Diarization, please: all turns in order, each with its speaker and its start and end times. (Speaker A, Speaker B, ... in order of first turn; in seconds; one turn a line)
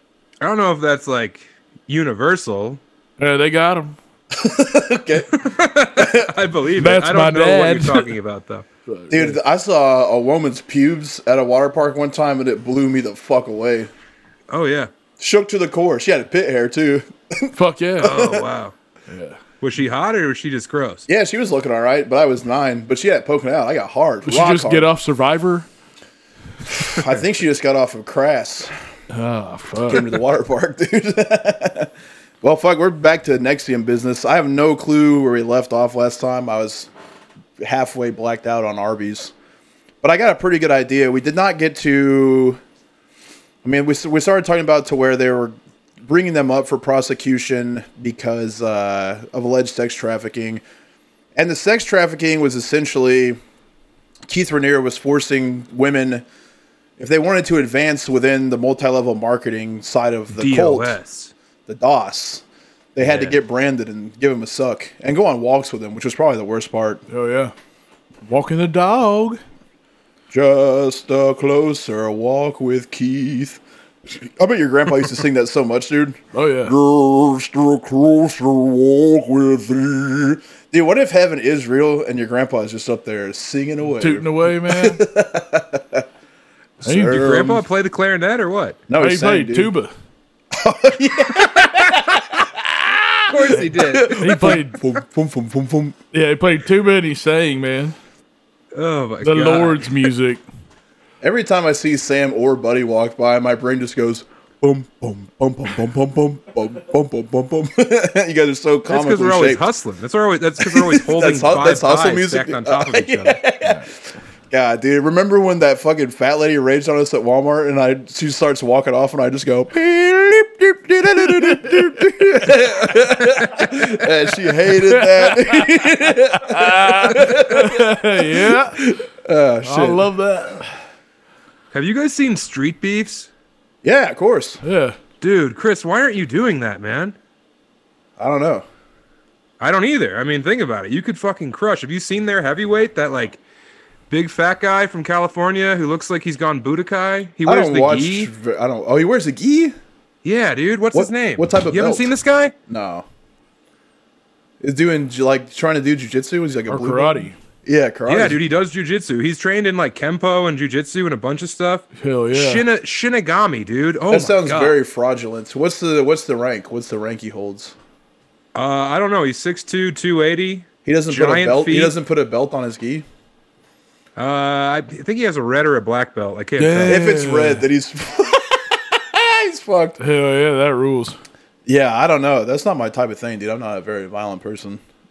Speaker A: 0.4-2.8
Speaker B: 3.2-4.0
Speaker C: 4.3-5.4
Speaker A: 5.3-8.7
Speaker C: 6.0-6.3
Speaker B: 6.8-8.1
Speaker B: 8.8-9.4
Speaker C: 9.1-13.9
Speaker A: 14.5-14.9
Speaker C: 15.2-18.4
Speaker B: 17.5-18.2
Speaker A: 18.0-18.7
Speaker B: 19.1-19.4
Speaker A: 19.6-21.0
Speaker C: 21.1-24.9
Speaker B: 24.2-25.7
Speaker C: 26.7-28.7
Speaker B: 29.1-30.2
Speaker C: 29.9-31.9
Speaker C: 32.4-36.9
Speaker C: 37.6-39.3
Speaker C: 40.0-42.6
Speaker C: 43.6-50.6
Speaker C: 51.3-53.4
Speaker C: 54.3-56.2
Speaker C: 57.0-61.0
Speaker A: 60.4-61.3
Speaker C: 61.7-62.4
Speaker C: 62.9-67.0
Speaker B: 67.1-67.5
Speaker B: 68.2-69.4
Speaker C: 70.3-73.6
Speaker C: 74.2-86.0
Speaker B: 76.3-76.7
Speaker B: 84.0-85.0
Speaker C: 86.8-87.6
Speaker B: 86.8-87.2
Speaker A: 87.0-88.8
Speaker C: 88.9-89.7
Speaker B: 88.9-89.9
Speaker C: 90.5-96.0
Speaker A: 93.3-94.5
Speaker B: 93.5-94.8
Speaker B: 96.1-98.0
Speaker A: 98.7-99.9
Speaker B: 99.2-100.4
Speaker C: 101.2-109.6
Speaker A: 108.9-113.4
Speaker C: 110.6-114.0
Speaker C: 114.5-130.1
Speaker A: 123.4-123.7
Speaker B: 124.8-128.8
Speaker B: 129.6-130.7
Speaker A: 131.7-133.3
Speaker C: 133.8-134.6
Speaker B: 134.6-135.0
Speaker A: 135.2-137.2
Speaker C: 138.2-138.7
Speaker A: 139.6-143.4
Speaker A: 144.1-148.3
Speaker C: 147.4-149.7
Speaker A: 150.2-152.5
Speaker C: 150.9-152.1
Speaker C: 152.7-153.0
Speaker C: 154.6-158.4
Speaker B: 156.7-157.3
Speaker A: 158.1-164.8
Speaker B: 161.9-162.7
Speaker C: 164.1-167.7
Speaker A: 168.5-171.9
Speaker C: 170.8-173.0
Speaker A: 174.2-177.1
Speaker B: 176.6-177.6
Speaker C: 176.9-180.0
Speaker B: 180.0-181.2
Speaker C: 181.7-184.8